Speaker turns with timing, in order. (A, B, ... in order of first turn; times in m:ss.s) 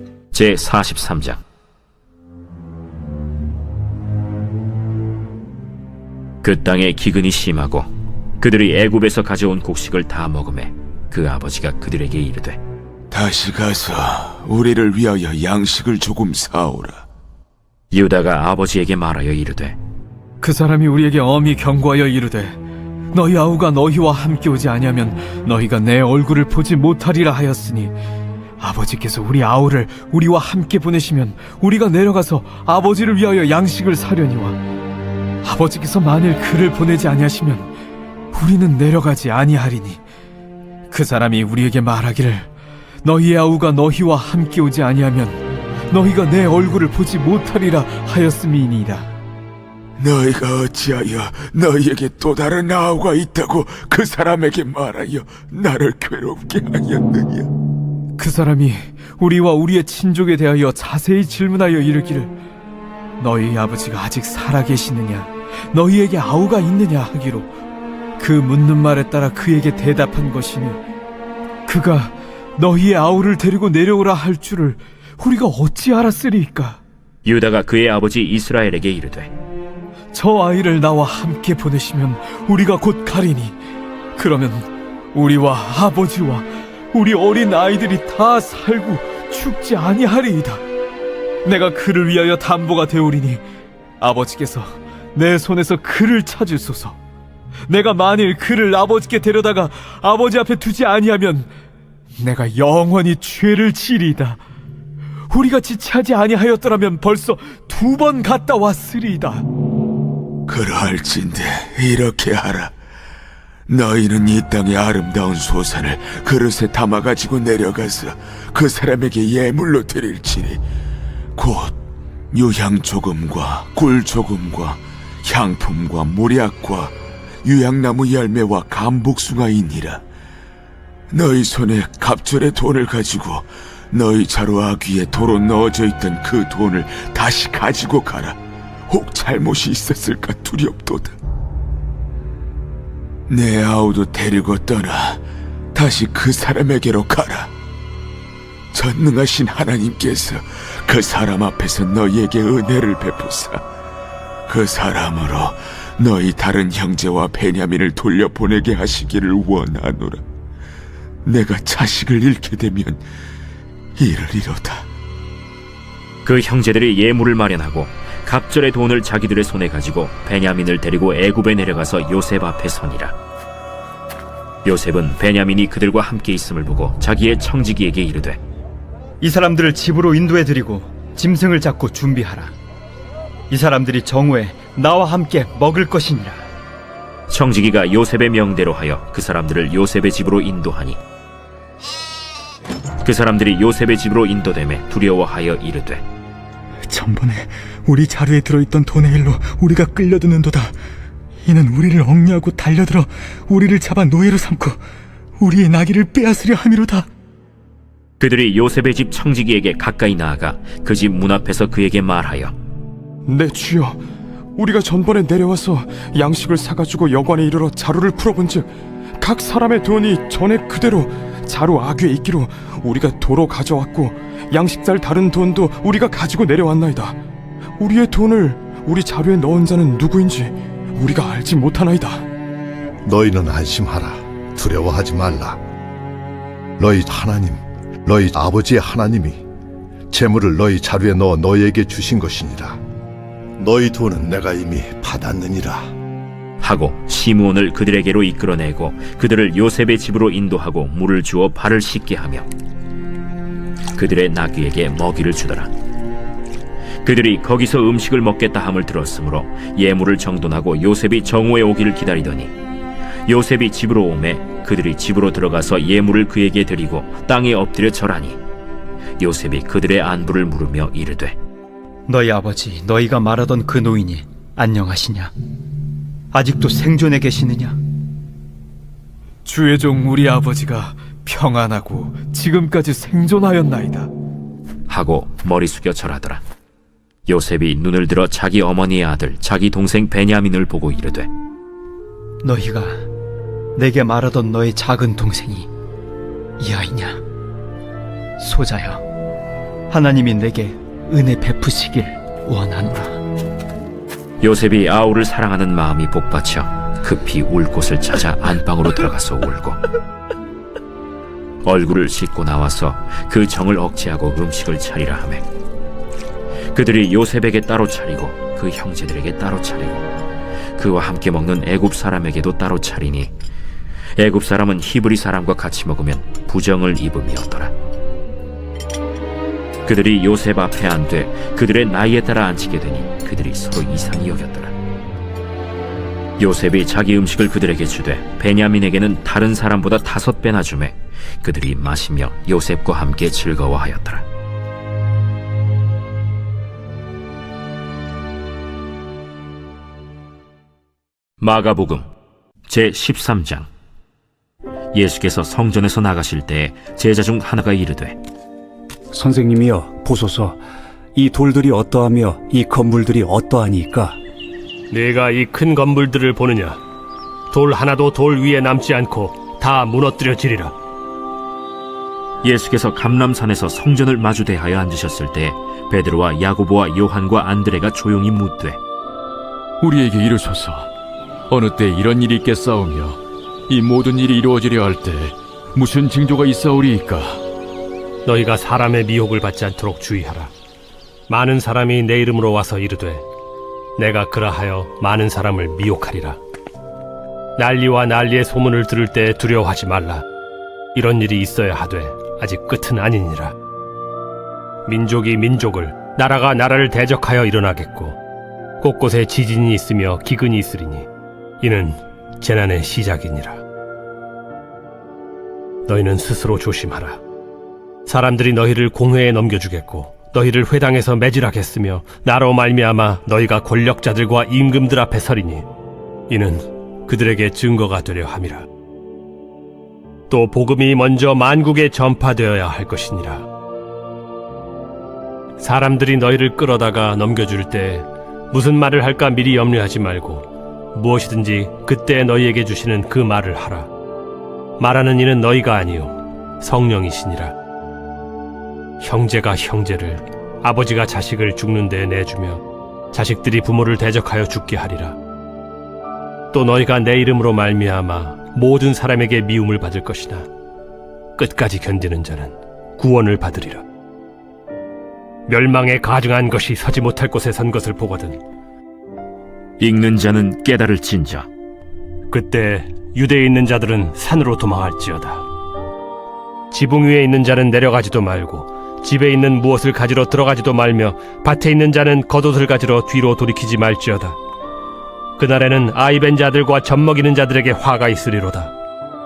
0:00.3-0:01.4 A
0:06.4-0:07.9 A
0:08.4-0:12.6 A
0:13.1-0:17.0 B
0:17.9-0:19.8 A
0:20.4-0:22.6 C
0:23.1-0:28.0 C
0:28.6-0:34.6 C
0:35.4-0:37.7 C
0:38.3-0:40.0 C
0:40.9-0:42.5 C
0:43.0-0:49.1 C
0:50.0-0:57.5 B
0:58.2-1:02.3 C
1:03.2-1:07.5 C
1:08.2-1:10.8 C
1:11.6-1:16.8 C
1:17.2-1:19.3 A
1:20.1-1:23.6 C
1:24.2-1:30.6 C
1:31.4-1:33.4 C
1:34.0-1:37.0 C
1:37.7-1:41.5 C
1:42.2-1:44.4 C
1:45.3-1:49.4 C
1:50.5-1:52.7 B
1:53.7-2:00.6 B
2:01.3-2:01.7 B
2:02.3-2:10.0 B
2:11.1-2:18.4 B
2:18.9-2:21.2 B
2:23.3-2:25.2 B
2:25.7-2:27.5 B
2:28.7-2:33.6 B
2:34.5-2:40.2 B
2:41.2-2:43.0 B
2:44.0-2:44.9 B
2:46.2-2:53.1 A
2:54.6-2:58.4 A
2:59.2-3:02.5 D
3:03.5-3:06.4 D
3:07.3-3:11.0 A
3:13.0-3:16.0 A
3:16.9-3:20.7 E
3:21.4-3:24.8 E
3:25.4-3:27.1 E
3:28.2-3:32.5 A
3:33.2-3:34.0 F
3:34.6-3:38.7 F
3:39.2-3:47.2 F
3:47.8-3:52.2 F
3:53.0-3:55.6 G
3:56.8-3:59.4 G
4:00.1-4:02.8 G
4:03.6-4:05.9 G
4:06.6-4:12.5 A
4:14.0-4:15.7 A
4:17.0-4:22.5 A
4:23.3-4:28.4 A
4:29.2-4:31.4 A
4:32.1-4:35.3 D
4:36.3-4:37.8 D
4:39.4-4:44.1 C
4:44.9-4:46.4 A
4:47.3-4:51.3 A
4:52.4-4:53.0 D
4:53.8-4:55.7 D
4:56.6-4:57.2 D
4:58.4-4:59.0 D
4:59.9-5:03.2 D
5:04.4-5:09.8 A
5:11.6-5:15.4 A
5:16.7-5:20.0 A
5:20.8-5:23.3 A
5:24.2-5:27.7 A
5:29.8-5:34.7 A
5:36.4-5:44.2 A
5:51.4-5:52.1 A
5:52.7-5:53.7 A
5:54.9-5:58.2 A
5:59.1-6:00.6 H
6:01.1-6:04.2 H
6:04.9-6:06.8 I
6:07.5-6:10.7 I
6:12.4-6:18.8 A
6:19.8-6:20.9 J
6:21.5-6:27.4 J
6:28.2-6:30.5 I
6:31.3-6:33.2 I
6:34.0-6:36.4 I
6:37.6-6:40.2 I
6:40.9-6:43.5 I
6:44.8-6:48.2 I
6:48.8-6:51.1 I
6:51.6-6:53.6 I
6:55.9-6:57.2 I
6:58.0-7:05.6 I
7:06.3-7:08.7 I
7:10.3-7:13.4 I
7:15.6-7:23.9 I
7:24.8-7:27.5 I
7:29.0-7:35.2 I
7:36.5-7:40.4 I
7:41.4-7:43.8 I
7:45.5-7:48.4 I
7:49.8-7:51.5 A
7:52.3-7:55.4 I
7:56.7-8:04.4 I
8:05.4-8:08.7 I